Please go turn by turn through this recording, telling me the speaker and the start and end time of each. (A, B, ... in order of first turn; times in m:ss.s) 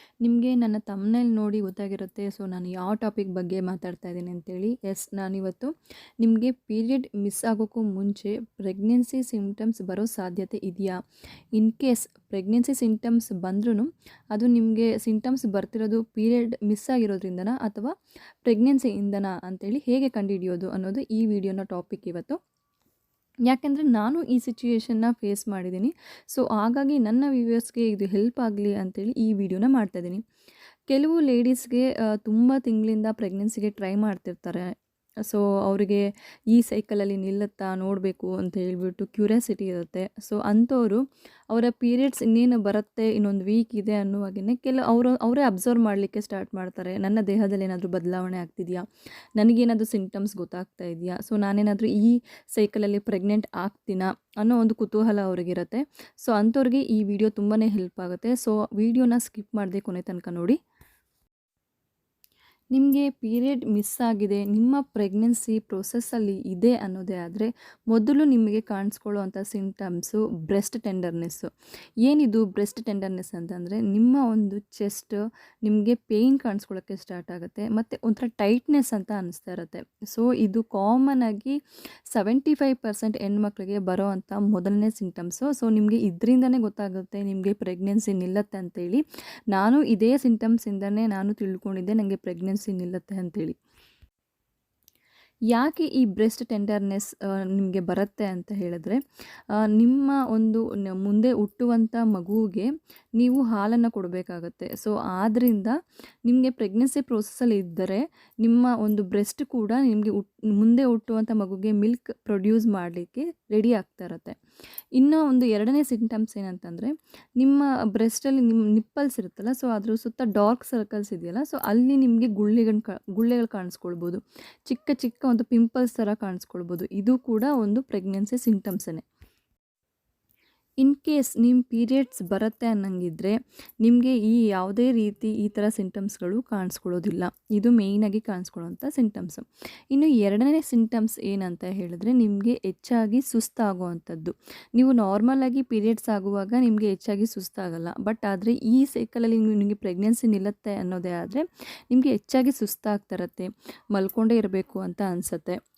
0:00.2-0:11.0 A
0:11.5-0:17.9 A
0:18.4-0:22.4 A
0:23.5-0:30.2 A
0:30.9-0:34.7 A
0:35.2-0:48.8 A
0:49.4-1:00.6 A
1:02.7-1:11.5 A
1:12.0-1:21.6 A
1:22.1-1:33.6 A
1:35.5-1:39.0 A
1:39.7-1:45.7 A
1:46.2-1:54.4 A
1:55.0-2:09.0 A
2:10.8-2:35.6 A